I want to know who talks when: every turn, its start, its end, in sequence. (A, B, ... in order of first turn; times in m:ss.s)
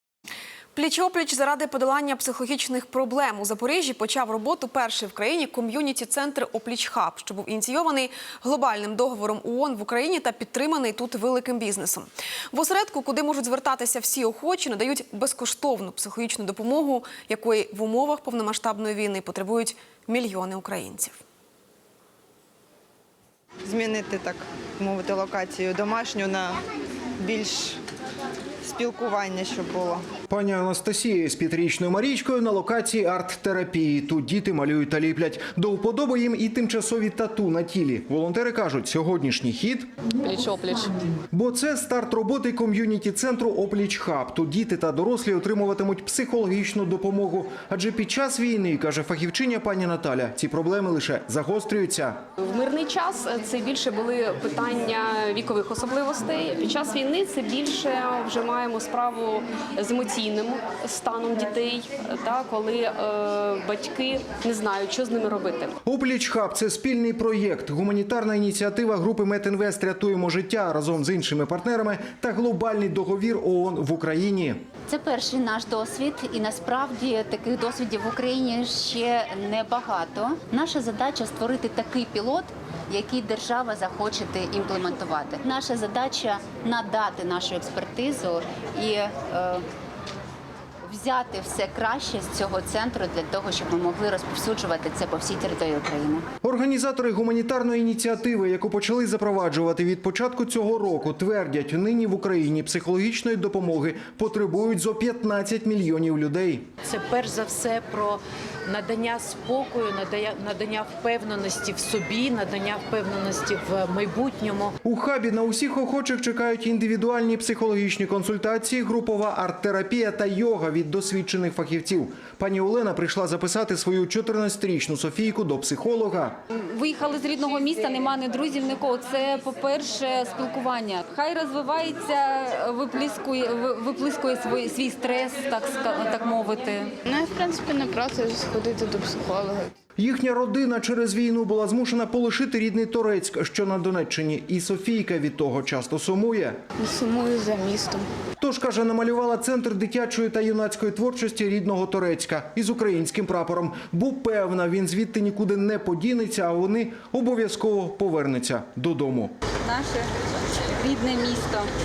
0:00.7-0:21.2 A
0:23.6-0:26.6 B
0:27.2-0:27.8 B
0:28.6-0:30.0 B
0:30.3-0:39.9 C
0:40.2-0:40.9 D
0:41.3-0:52.2 C
0:52.4-1:05.7 D
1:05.8-1:14.6 C
1:14.9-1:29.6 E
1:30.8-1:36.2 E
1:36.4-1:46.7 C
1:46.8-1:54.7 F
1:54.8-2:06.3 C
2:06.5-2:16.9 G
2:17.0-2:19.7 H
2:20.0-2:26.6 C
2:26.8-2:28.1 H
2:28.4-2:39.3 C
2:39.6-2:40.1 G
2:40.7-2:41.7 G